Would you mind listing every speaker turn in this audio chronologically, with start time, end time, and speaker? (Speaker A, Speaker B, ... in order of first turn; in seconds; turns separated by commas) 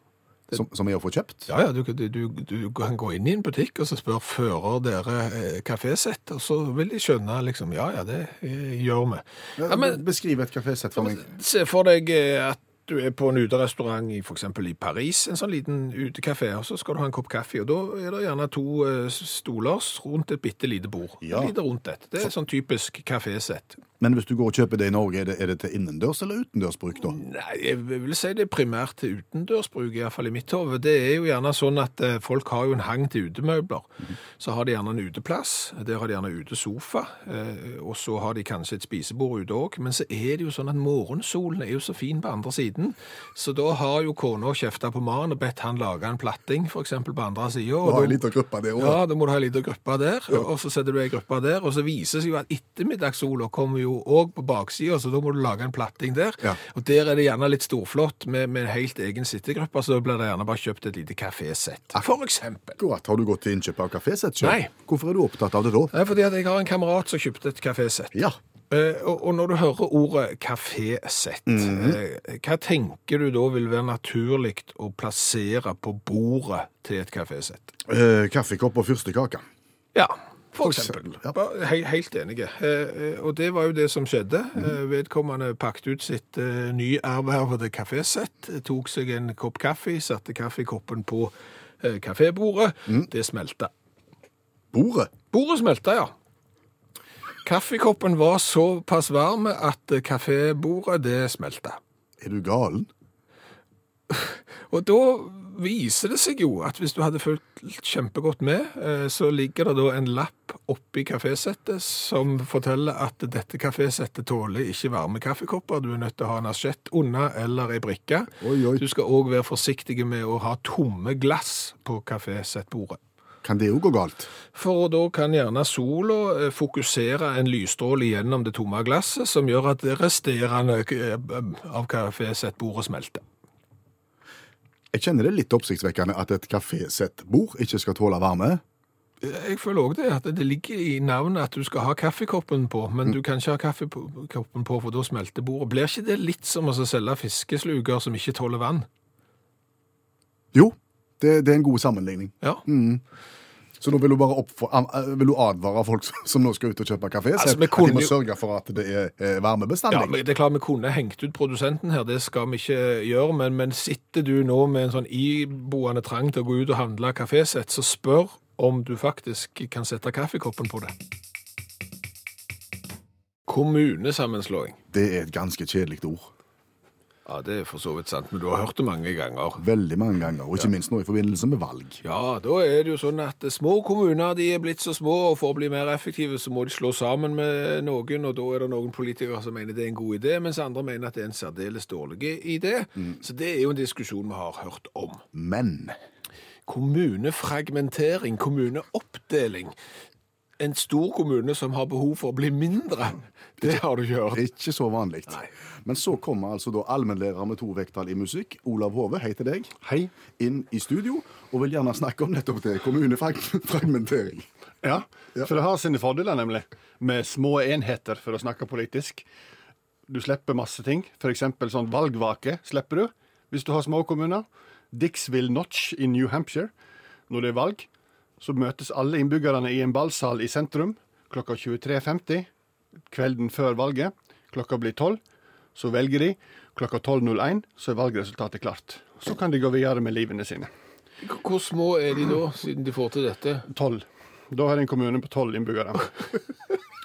Speaker A: 0.5-1.5, Speaker B: 1.5-10.0, Speaker A: 9.6-11.3, Speaker B: 11.0-23.8, Speaker A: 21.2-21.5, Speaker A: 24.0-27.2, Speaker B: 27.0-48.2, Speaker A: 47.8-49.0, Speaker B: 48.8-62.8, Speaker A: 62.8-65.9, Speaker B: 64.4-64.7, Speaker B: 65.9-68.2, Speaker B: 68.7-77.7, Speaker A: 71.5-72.0, Speaker A: 77.8-79.4, Speaker B: 80.0-93.7, Speaker A: 80.6-81.4, Speaker A: 94.7-95.1, Speaker B: 95.3-96.1, Speaker B: 97.4-101.8, Speaker A: 102.2-102.9, Speaker B: 104.1-123.0, Speaker A: 118.4-118.8, Speaker A: 123.4-124.3, Speaker B: 124.5-133.2, Speaker A: 134.9-138.6, Speaker B: 139.2-148.9, Speaker A: 150.5-153.0, Speaker A: 153.8-160.2, Speaker B: 157.4-158.2, Speaker B: 159.9-170.9, Speaker B: 173.5-174.8, Speaker A: 174.9-176.3, Speaker B: 177.3-179.6, Speaker A: 179.6-182.0, Speaker B: 182.0-195.2, Speaker A: 195.3-195.9, Speaker B: 196.7-199.8, Speaker B: 200.6-204.4, Speaker A: 204.3-209.7, Speaker C: 209.8-210.1, Speaker A: 210.4-214.5, Speaker C: 214.8-219.2, Speaker C: 220.1-226.7, Speaker C: 227.3-227.9, Speaker C: 228.4-232.5, Speaker C: 233.1-235.2, Speaker C: 235.8-240.7, Speaker B: 241.2-243.7, Speaker C: 243.7-246.1